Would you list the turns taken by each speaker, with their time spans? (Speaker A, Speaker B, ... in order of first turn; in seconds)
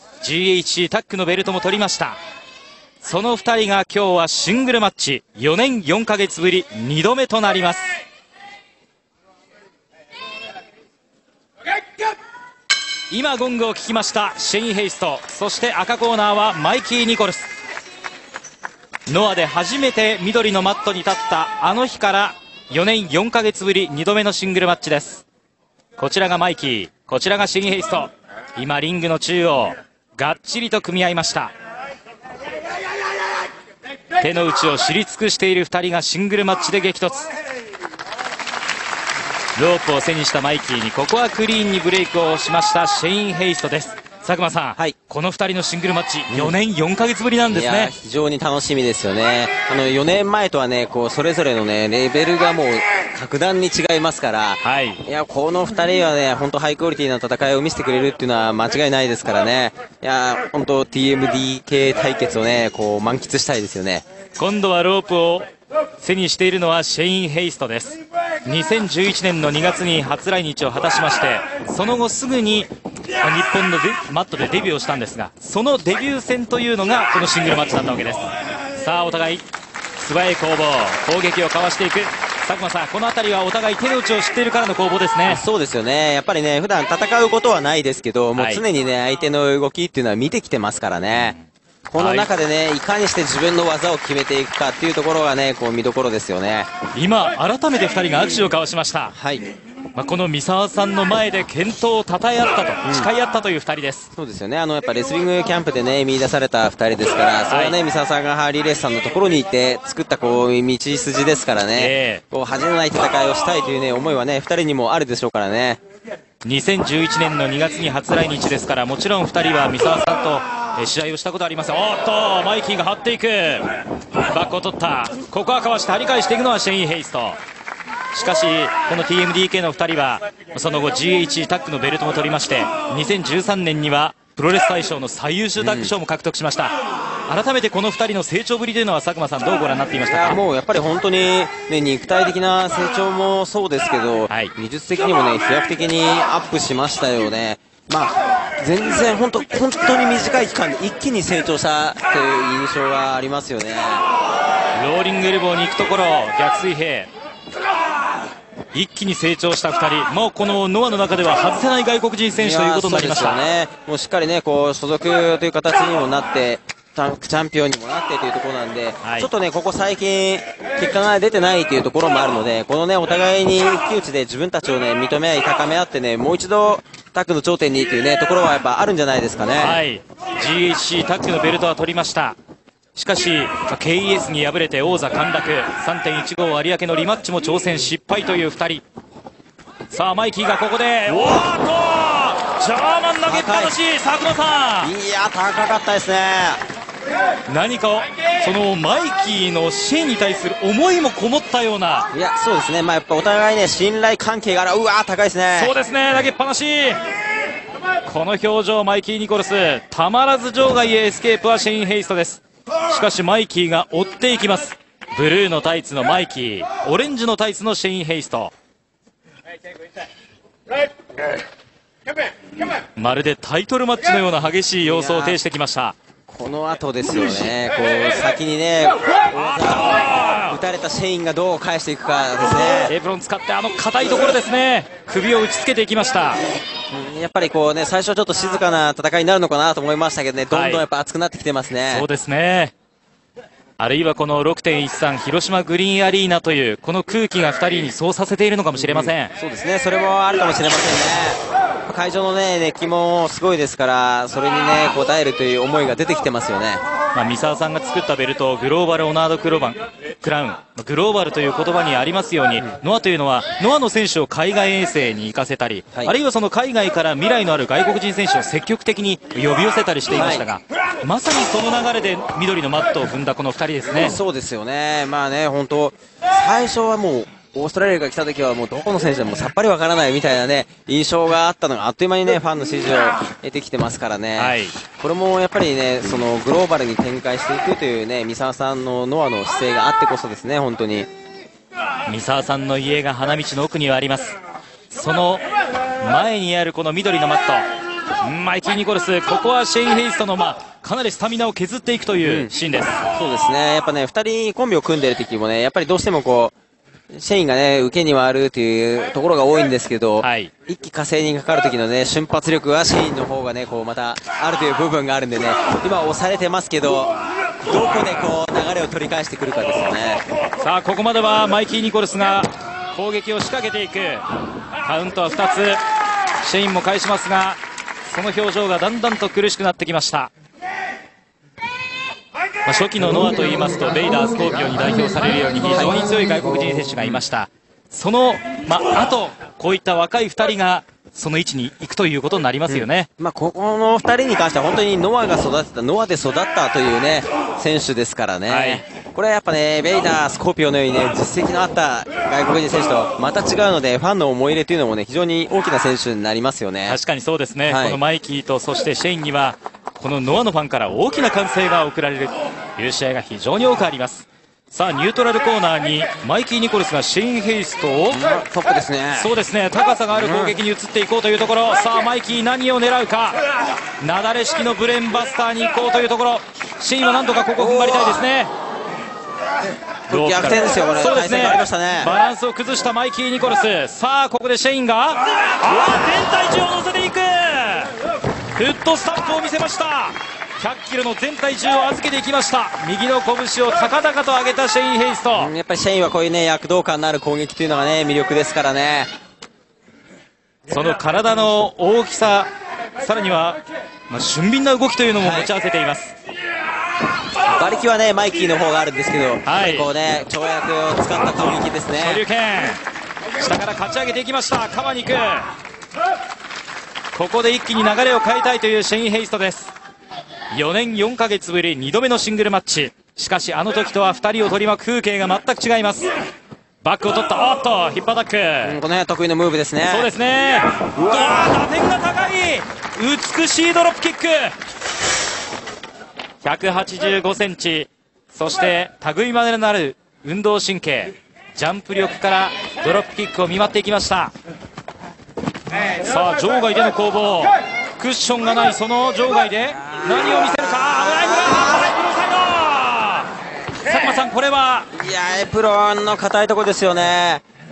Speaker A: 0.2-2.2, 3.0-7.8, 13.1-17.5, 19.1-25.2, 26.0-31.5, 34.2-37.3, 39.5-47.9, 54.6-55.0, 64.4-65.5, 66.0-79.4, 80.0-85.4, 88.3-88.6, 91.2-91.5, 92.0-92.3, 96.9-99.1, 99.9-104.1, 107.5-107.8, 111.7-112.2, 116.4-123.7, 124.2-127.4, 128.1-136.7, 137.3-140.4, 154.8-157.1, 158.7-163.4, 169.0-169.3, 179.6-182.4, 182.9-188.8, 189.9-194.9, 197.5-202.1, 205.5-207.0, 208.0-218.5, 222.9-225.9, 229.6-230.6, 232.9-236.4, 240.5-240.8, 241.9-242.7, 243.8-249.3, 257.1-274.2, 284.4-284.7, 292.1-294.4, 294.9-295.4, 296.0-297.6, 298.2-303.0, 310.2-310.5, 320.6-324.2, 324.8-325.8, 326.4-330.3, 332.6-343.1, 348.5-348.8, 356.9-368.2, 369.1-373.4, 374.0-378.5, 380.1-387.9, 388.6-395.5, 400.7-402.5, 403.0-406.1, 409.4-409.9, 411.9-412.8, 413.4-415.5, 417.1-419.7, 420.5-426.1, 426.8-428.8, 429.9-434.5, 436.4-444.3, 446.0-453.3, 453.8-454.9
Speaker B: 46.3-46.5, 47.5-64.0, 85.2-91.3, 91.9-96.7, 99.1-99.4, 102.8-103.1, 104.1-115.8, 135.6-135.9, 140.0-154.0, 162.3-179.8, 193.2-193.8, 194.8-196.6, 202.1-205.8, 224.8-225.4, 226.3-232.9, 236.9-242.1, 248.7-256.8, 270.1-270.5, 273.9-291.1, 302.2-302.5, 303.1-306.5, 307.1-317.1, 317.6-320.2, 335.7-336.0, 342.7-357.0, 357.6-358.0, 368.1-369.3, 370.1-370.6, 377.6-378.2, 380.1-382.1, 395.4-399.1, 405.2-405.5, 407.5-412.2, 428.6-430.1, 430.9-431.6, 450.4-451.9, 454.9-457.4